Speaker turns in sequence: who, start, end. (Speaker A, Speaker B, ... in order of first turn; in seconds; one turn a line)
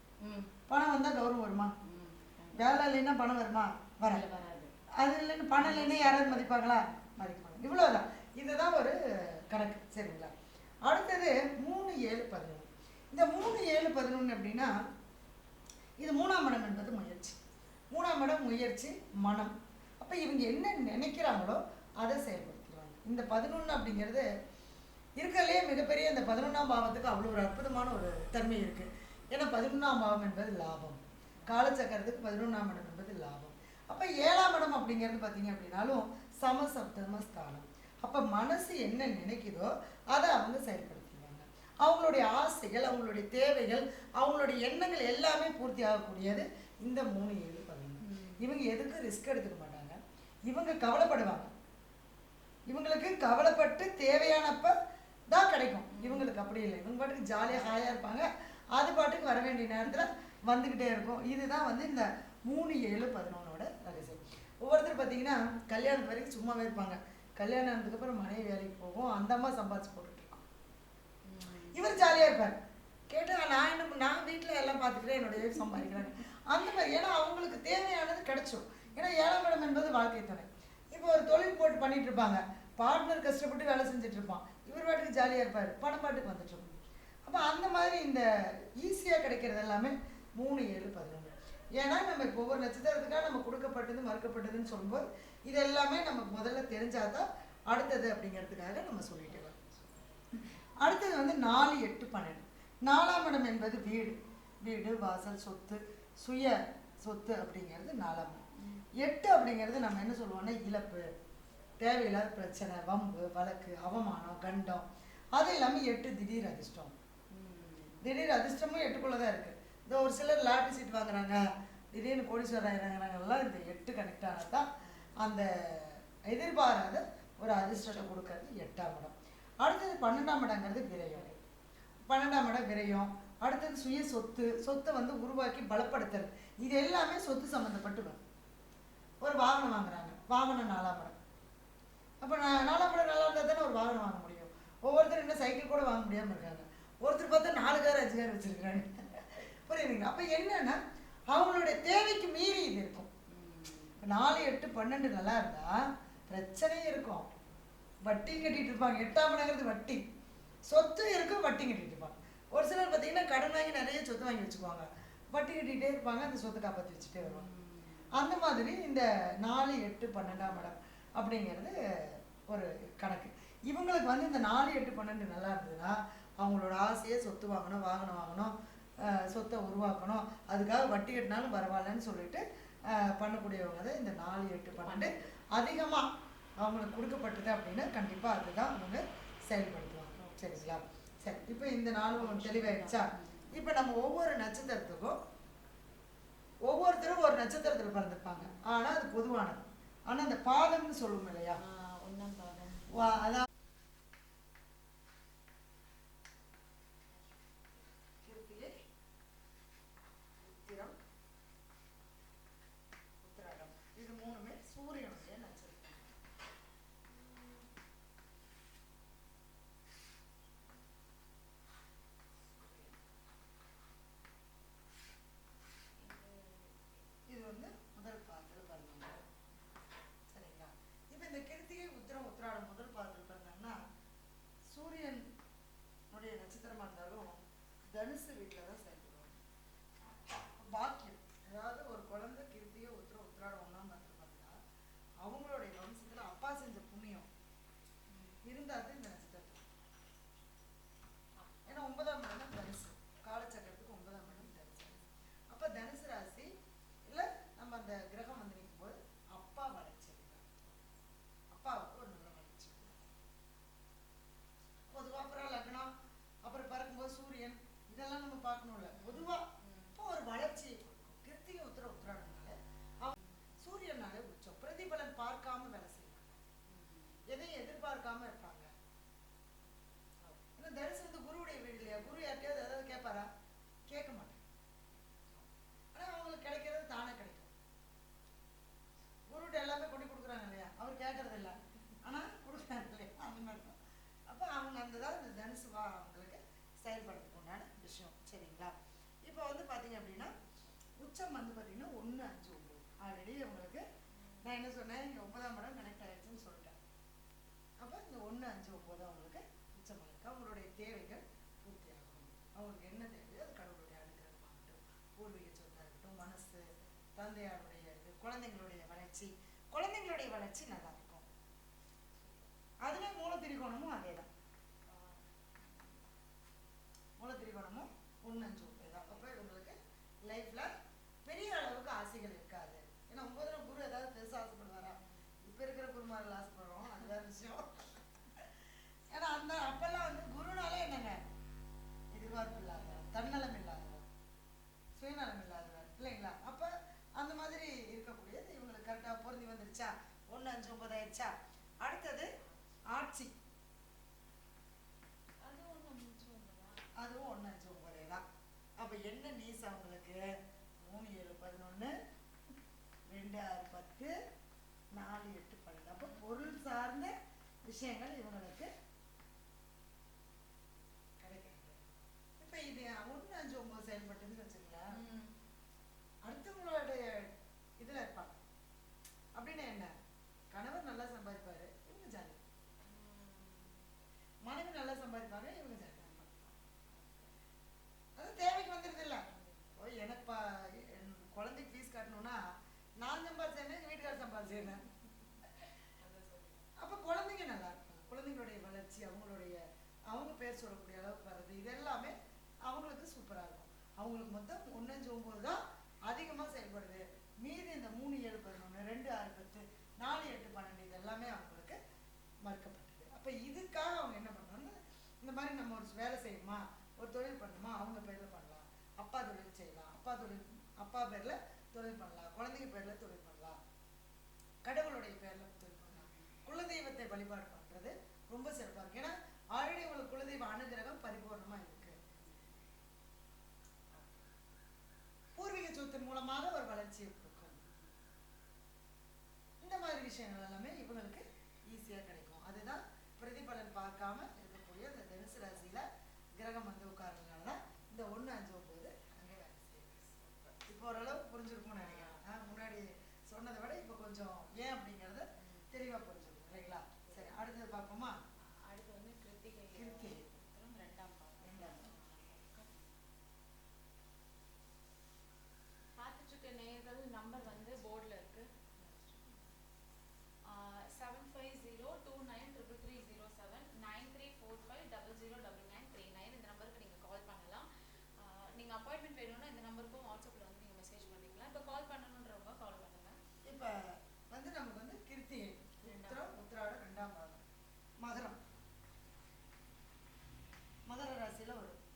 Speaker A: 0.2-0.5
Speaker B: 0.7-1.8
Speaker A: 1.8-2.6
Speaker B: 2.5-4.2
Speaker A: 4.1-4.7
Speaker B: 5.0-10.3
Speaker A: 5.6-6.8
Speaker B: 10.8-14.7
Speaker B: 16.0-17.4
Speaker B: 17.9-24.3
Speaker B: 25.2-51.5
Speaker A: 48.0-48.4
Speaker B: 52.7-54.7
Speaker B: 55.3-70.4
Speaker A: 55.9-56.3
Speaker A: 71.3-71.9
Speaker B: 71.7-72.5
Speaker B: 73.1-86.7
Speaker B: 87.3-88.3
Speaker B: 88.8-99.6
Speaker B: 100.8-108.4
Speaker B: 109.0-111.1
Speaker B: 111.8-116.9
Speaker A: 117.3-118.0
Speaker B: 118.0-124.7
Speaker A: 124.8-125.1
Speaker B: 125.2-131.3
Speaker B: 132.1-138.2
Speaker B: 139.2-141.2
Speaker B: 142.2-150.8
Speaker B: 151.3-153.1
Speaker A: 153.3-154.0
Speaker B: 154.0-155.7
Speaker B: 156.3-157.3
Speaker B: 158.0-160.0
Speaker B: 160.7-167.5
Speaker A: 167.2-168.1
Speaker B: 168.1-186.1
Speaker A: 184.7-185.3
Speaker B: 186.6-195.2
Speaker A: 190.2-190.5
Speaker A: 192.2-193.5
Speaker B: 196.7-201.6
Speaker A: 201.6-202.9
Speaker B: 202.9-203.5
Speaker B: 208.2-208.7
Speaker B: 210.4-211.0
Speaker B: 213.2-216.1
Speaker A: 217.1-217.7
Speaker A: 222.6-223.0
Speaker A: 226.0-226.9
Speaker B: 227.3-229.2
Speaker B: 230.3-233.8
Speaker B: 234.7-235.3
Speaker B: 236.1-239.4
Speaker B: 240.5-244.6
Speaker B: 245.2-247.3
Speaker A: 248.1-248.4
Speaker B: 248.4-249.6
Speaker A: 251.4-251.8
Speaker B: 251.7-256.5
Speaker B: 257.1-260.5
Speaker B: 261.5-263.1
Speaker B: 264.9-265.9
Speaker B: 266.4-276.4
Speaker A: 268.9-270.0
Speaker A: 276.7-277.2
Speaker B: 277.3-278.7
Speaker B: 280.6-283.3
Speaker B: 283.9-284.4
Speaker B: 285.9-287.5
Speaker B: 289.3-300.3
Speaker B: 301.0-303.9
Speaker B: 304.4-306.8
Speaker B: 307.8-321.3
Speaker A: 322.2-322.5
Speaker B: 322.8-324.3
Speaker A: 324.9-326.0
Speaker B: 327.2-330.7
Speaker B: 331.2-338.4
Speaker B: 339.1-341.2
Speaker B: 342.1-344.1
Speaker A: 342.6-343.2
Speaker B: 345.0-352.3
Speaker B: 352.9-353.3
Speaker A: 355.4-356.9
Speaker B: 357.0-358.2
Speaker B: 358.8-361.9
Speaker B: 363.1-364.1
Speaker B: 364.9-367.1
Speaker B: 367.7-368.7
Speaker B: 371.2-375.0
Speaker A: 374.9-375.4
Speaker B: 376.3-378.4
Speaker B: 379.4-379.9
Speaker B: 380.5-382.4
Speaker A: 382.9-383.8
Speaker B: 384.4-386.3
Speaker A: 386.2-387.4
Speaker B: 388.2-389.2
Speaker A: 389.2-389.8
Speaker B: 389.8-392.4
Speaker B: 393.0-394.8
Speaker A: 396.0-396.7
Speaker B: 396.8-399.6
Speaker B: 400.1-402.1
Speaker B: 402.7-411.8
Speaker B: 412.4-423.6
Speaker B: 424.6-432.0
Speaker A: 425.9-426.4
Speaker A: 431.8-432.6
Speaker A: 433.9-434.3
Speaker B: 435.4-437.6
Speaker A: 437.6-438.0
Speaker B: 439.6-458.1
Speaker A: 450.2-450.6
Speaker A: 451.7-452.2
Speaker A: 457.1-457.4
Speaker A: 458.4-462.9
Speaker B: 459.8-460.3
Speaker B: 461.4-461.9
Speaker A: 466.0-469.4
Speaker A: 470.4-483.2
Speaker B: 483.5-487.4
Speaker A: 485.8-486.4
Speaker B: 488.0-488.4
Speaker B: 490.9-491.8